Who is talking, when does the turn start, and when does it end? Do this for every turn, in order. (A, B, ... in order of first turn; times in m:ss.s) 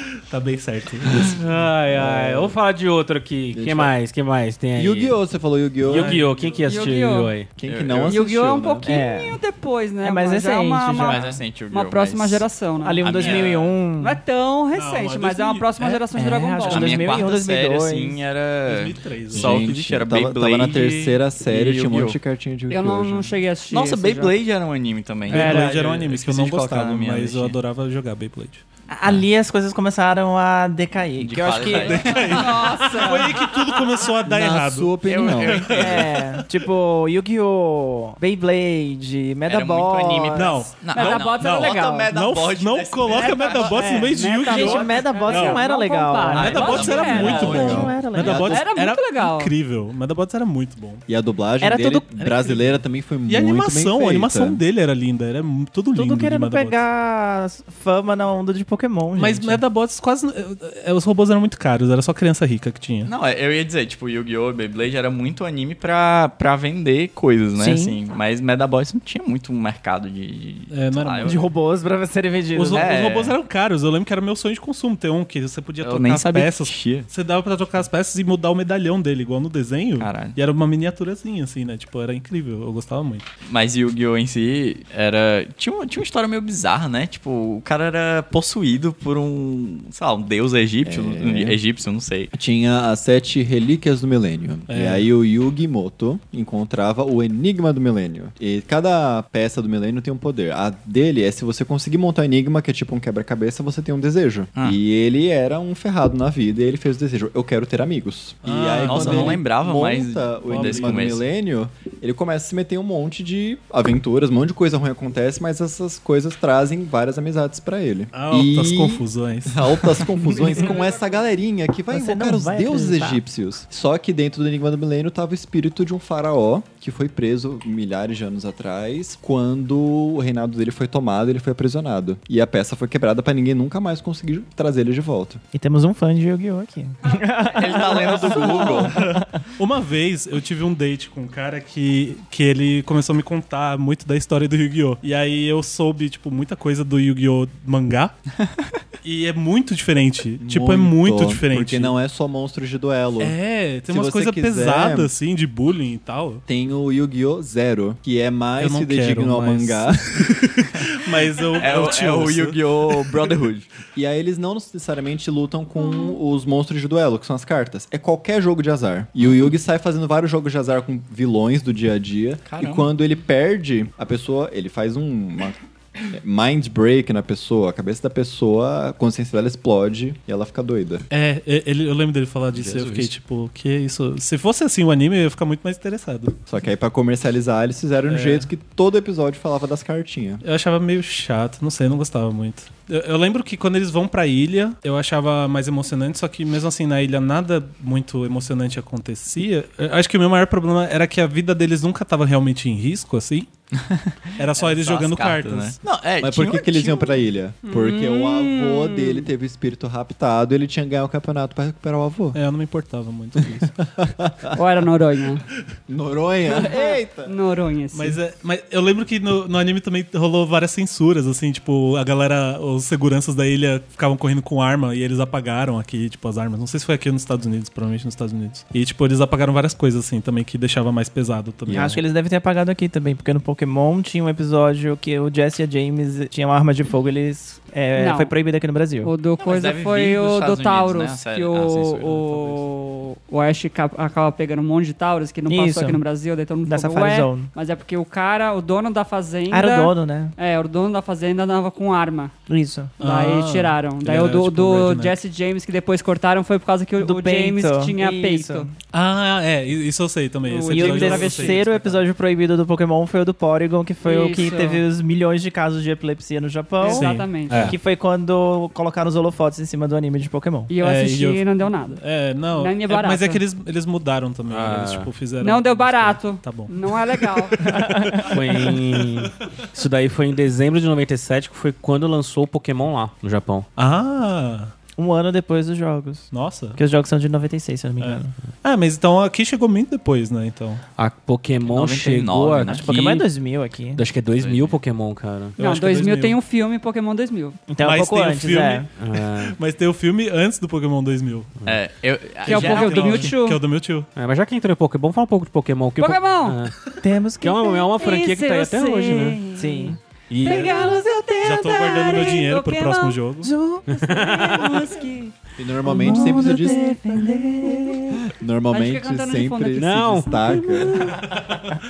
0:00.3-0:01.6 A
0:01.2-0:05.2 B
0:01.9-0:02.6 C
0:03.5-0:03.9 C
0:04.7-0:06.3 C
0:05.8-0:07.5 B
0:05.8-0:07.0 A
0:06.6-0:07.3 D
0:07.6-0:08.9 C
0:07.6-0:08.2 E
0:08.1-0:13.4 D
0:08.8-0:09.4 F
0:10.0-0:11.4 F
0:11.0-0:12.5 E
0:12.8-0:14.2 F
0:13.0-0:13.8 E
0:14.0-0:17.0 D
0:14.7-0:16.0 A
0:16.1-0:18.2 F
0:16.6-0:22.2 E
0:18.6-0:19.7 A
0:19.3-0:23.3 C
0:22.7-0:24.4 D
0:23.7-0:27.6 E
0:25.3-0:28.6 A
0:25.3-0:25.7 D
0:28.9-0:32.4 F
0:31.2-0:32.5 E
0:31.7-0:36.4 A
0:32.1-0:33.4 D
0:34.2-0:35.9 C
0:35.0-0:36.2 E
0:35.8-0:40.6 F
0:39.4-0:44.1 E
0:40.3-0:45.7 A
0:40.9-0:42.1 D
0:43.1-0:47.8 D
0:43.6-0:48.5 F
0:46.3-0:48.0 E
0:46.3-0:51.0 A
0:47.2-0:48.6 C
0:48.3-0:49.5 D
0:51.1-0:54.6 C
0:51.6-0:52.4 F
0:52.2-0:52.5 E
0:53.3-0:56.8 A
0:55.9-0:59.6 F
0:59.2-1:03.1 A
1:03.0-1:11.4 E
1:07.6-1:08.0 F
1:10.7-1:11.5 A
1:11.2-1:12.9 F
1:12.5-1:23.2 A
1:12.7-1:13.4 E
1:15.8-1:17.1 E
1:20.0-1:20.4 E
1:23.4-1:32.3 E
1:30.8-1:31.6 C
1:32.3-2:15.4 C
1:34.7-1:35.1 A
1:48.4-1:49.4 A
1:48.8-1:51.2 E
1:50.5-1:51.1 A
1:58.1-2:00.6 A
2:01.9-2:03.2 F
2:15.5-2:19.4 F
2:17.5-2:18.9 E
2:18.8-2:28.1 A
2:29.0-2:31.9 A
2:30.4-2:33.4 C
2:33.2-2:36.4 A
2:33.9-2:35.1 C
2:36.5-2:40.3 C
2:38.6-2:42.6 A
2:41.5-2:43.7 E
2:43.9-3:01.0 C
2:52.4-2:52.9 E
3:01.1-3:06.4 A
3:02.5-3:03.0 E
3:06.5-3:10.4 C
3:08.1-3:08.5 A
3:10.4-3:23.5 A
3:23.8-3:27.2 E
3:24.4-3:25.8 A
3:26.2-3:32.4 C
3:27.6-3:29.3 D
3:32.3-3:33.8 A
3:33.4-3:34.6 C
3:34.5-3:35.4 D
3:35.9-3:37.3 C
3:36.5-3:38.2 D
3:37.9-3:52.0 A
3:51.7-3:52.0 C
3:51.7-3:59.1 F
3:57.9-3:58.3 D
3:59.0-4:12.3 D
3:59.4-4:02.4 E
4:05.5-4:06.0 F
4:06.6-4:07.5 F
4:09.5-4:10.3 F
4:12.5-4:12.9 F
4:13.0-4:15.2 A
4:13.0-4:18.7 D
4:17.0-4:18.7 F
4:18.9-4:21.8 A
4:20.4-4:22.0 D
4:20.7-4:30.7 F
4:24.0-4:24.8 D
4:26.8-4:27.7 D
4:26.9-4:27.7 A
4:30.7-4:32.0 D
4:30.8-4:39.4 A
4:32.6-4:33.4 D
4:34.5-4:35.1 B
4:35.4-4:38.1 D
4:37.8-4:38.2 F
4:38.2-4:43.7 B
4:43.8-4:44.7 A
4:45.0-4:48.3 F
4:46.3-4:46.8 A
4:48.0-4:50.8 A
4:51.0-4:53.3 B
4:51.6-4:52.9 E
4:52.7-4:54.0 F
4:53.9-4:55.6 B
4:54.3-4:54.8 E
4:55.6-4:56.4 A
4:55.6-4:57.6 D
4:57.7-4:58.9 F
4:57.8-5:01.6 A
4:59.0-4:59.6 B
5:01.6-5:03.3 E
5:02.4-5:04.1 A
5:02.4-5:03.6 D
5:04.2-5:06.7 B
5:06.0-5:06.6 D
5:07.0-5:07.9 F
5:07.4-5:09.5 B
5:07.9-5:13.2 D
5:09.5-5:12.0 F
5:10.3-5:10.9 B
5:11.4-5:13.5 A
5:13.4-5:15.2 F
5:13.9-5:14.6 B
5:14.0-5:15.3 D
5:15.6-5:17.0 C
5:15.8-5:18.2 F
5:15.9-5:17.9 D
5:18.3-5:21.2 C
5:18.7-5:20.6 D
5:19.8-5:20.6 B